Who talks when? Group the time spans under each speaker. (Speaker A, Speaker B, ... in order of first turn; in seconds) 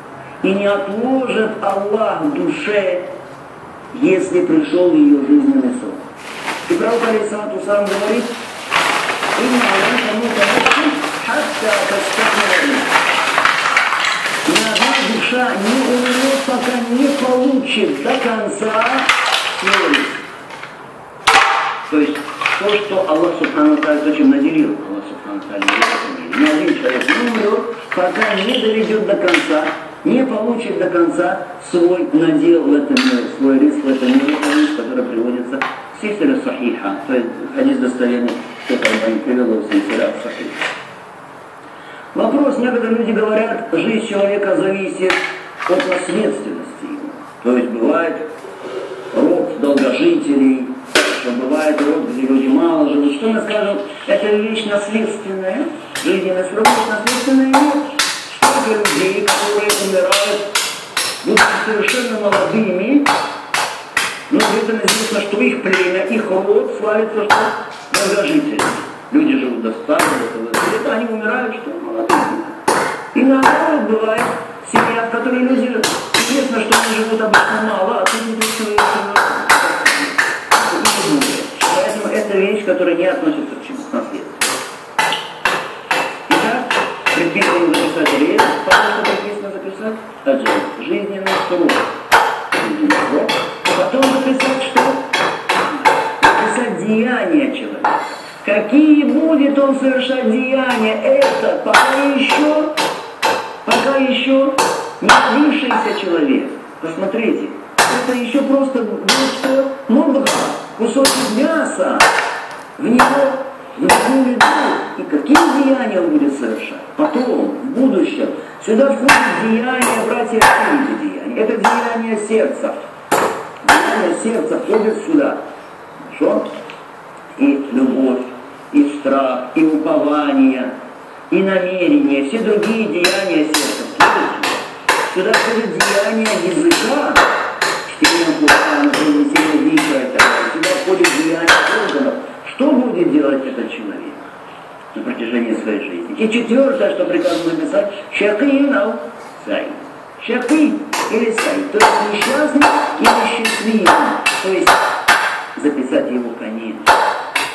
Speaker A: 0.4-3.1, 3.9-6.0, 6.7-8.3, 9.3-12.9, 14.4-20.3, 21.9-40.6, 42.1-48.2, 49.1-60.5, 61.2-63.1, 64.3-72.6, 73.1-84.6, 86.3-91.9, 92.6-95.1, 95.7-102.7, 103.7-112.1, 112.8-122.8, 123.6-125.4, 126.1-126.5, 127.4-130.7, 131.3-137.3, 137.9-144.2, 144.9-154.8, 155.6-156.9